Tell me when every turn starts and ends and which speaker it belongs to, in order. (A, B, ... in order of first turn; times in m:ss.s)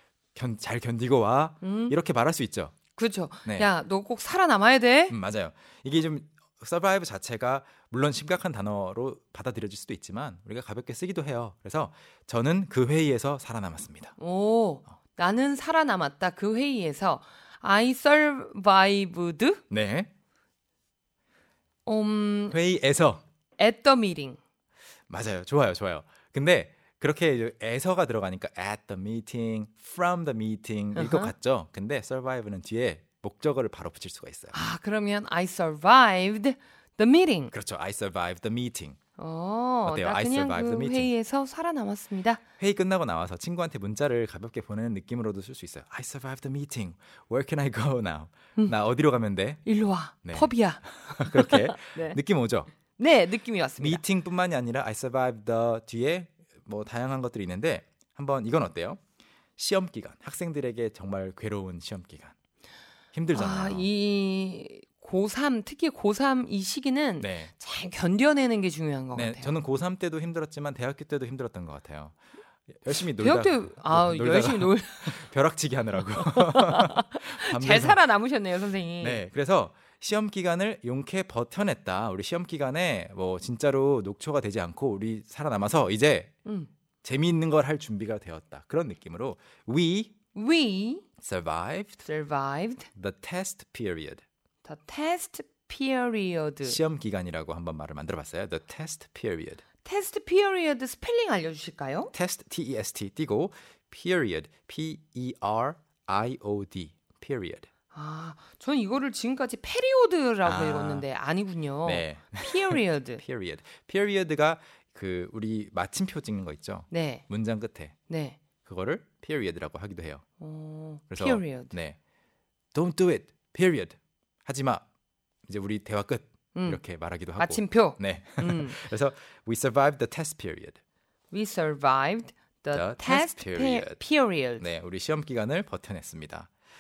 0:00.4-0:02.8 A
0:01.6-0:02.0 B
0:03.0-0:05.2 B
0:05.1-0:14.2 A
0:14.2-0:19.6 B
0:19.7-0:20.1 A
0:21.8-0:22.6 B
0:22.5-0:23.2 A
0:23.6-0:24.4 B
0:25.1-0:34.6 A
0:31.0-0:31.3 B
0:34.5-0:37.5 B
0:37.5-0:39.0 A
0:39.2-0:42.4 B
0:39.8-0:41.1 A
0:42.6-0:49.7 A
0:49.7-0:52.2 B
0:50.2-0:52.7 A
0:53.0-0:54.0 B
0:53.8-0:59.0 A
0:59.6-1:02.3 A
1:03.1-1:03.9 A
1:03.3-1:09.6 B
1:07.2-1:07.5 A
1:09.2-1:12.2 A
1:12.8-1:18.0 A
1:13.2-1:15.2 B
1:16.2-1:19.2 B
1:19.0-1:26.4 A
1:26.4-1:26.7 B
1:27.0-1:30.1 A
1:30.3-1:31.0 B
1:31.2-1:32.0 A
1:32.0-1:32.9 B
1:33.0-1:34.2 A
1:34.6-1:36.8 B
1:36.6-1:39.6 A
1:39.8-1:42.1 B
1:42.1-1:47.7 A
1:47.9-1:53.2 B
1:50.4-1:51.1 A
1:51.8-1:58.0 A
1:56.9-1:57.2 B
1:58.1-1:58.4 B
1:58.6-2:00.2 A
2:00.4-2:01.8 B
2:01.1-2:02.0 A
2:02.7-2:04.8 A
2:05.5-2:10.8 A
2:06.6-2:06.8 B
2:07.4-2:08.8 B
2:11.3-2:14.7 B
2:12.7-2:14.0 A
2:14.6-2:16.5 A